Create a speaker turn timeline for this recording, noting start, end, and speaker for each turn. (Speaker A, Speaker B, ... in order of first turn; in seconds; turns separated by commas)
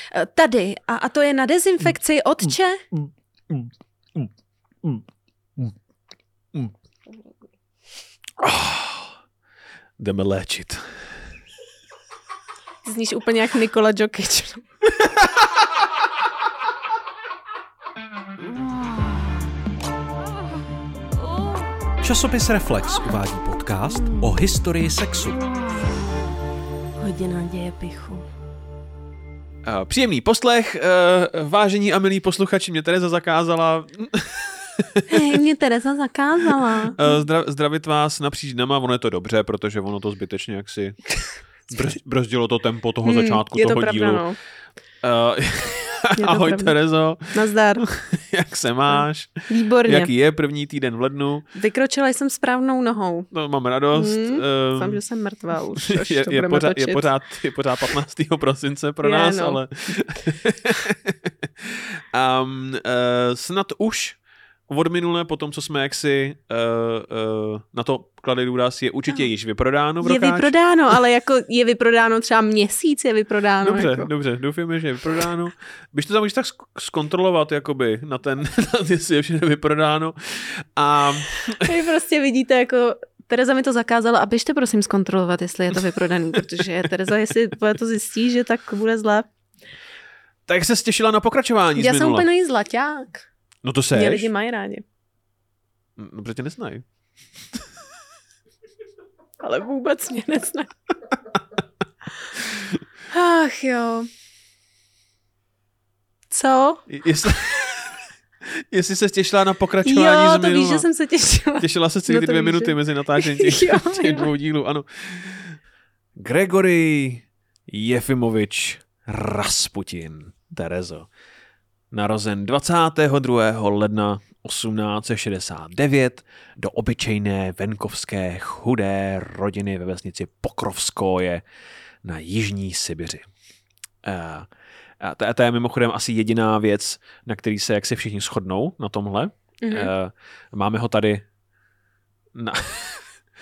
Speaker A: 0.1-2.8, Speaker B: 3.0-4.3, Speaker B: 8.4-9.1, Speaker B: 10.0-10.9, Speaker A: 12.8-14.6, Speaker B: 15.0-15.4, Speaker C: 22.0-25.4, Speaker A: 27.0-28.2, Speaker B: 29.6-35.4, Speaker A: 35.1-37.1, Speaker B: 36.9-41.0, Speaker B: 41.7-44.2, Speaker A: 43.0-44.4, Speaker B: 45.0-51.5, Speaker A: 46.1-46.8, Speaker A: 47.3-47.8, Speaker A: 48.9-50.1, Speaker A: 51.5-53.3, Speaker B: 53.3-55.0, Speaker A: 53.9-57.1, Speaker B: 55.8-70.9, Speaker A: 59.0-59.6, Speaker A: 70.0-74.1, Speaker B: 73.6-81.7, Speaker A: 81.4-89.3, Speaker B: 90.5-92.2, Speaker A: 91.8-93.2, Speaker B: 93.6-94.3, Speaker A: 93.9-94.8, Speaker B: 96.0-96.8, Speaker A: 99.4-100.7, Speaker A: 103.1-104.1, Speaker A: 106.3-106.8, Speaker B: 106.9-108.0, Speaker B: 108.7-110.8, Speaker A: 109.8-114.3, Speaker B: 111.6-115.6, Speaker B: 116.2-121.1, Speaker B: 121.9-131.4, Speaker B: 132.0-133.2, Speaker B: 134.0-134.5, Speaker B: 135.0-141.2, Speaker A: 139.6-139.9, Speaker B: 142.3-143.1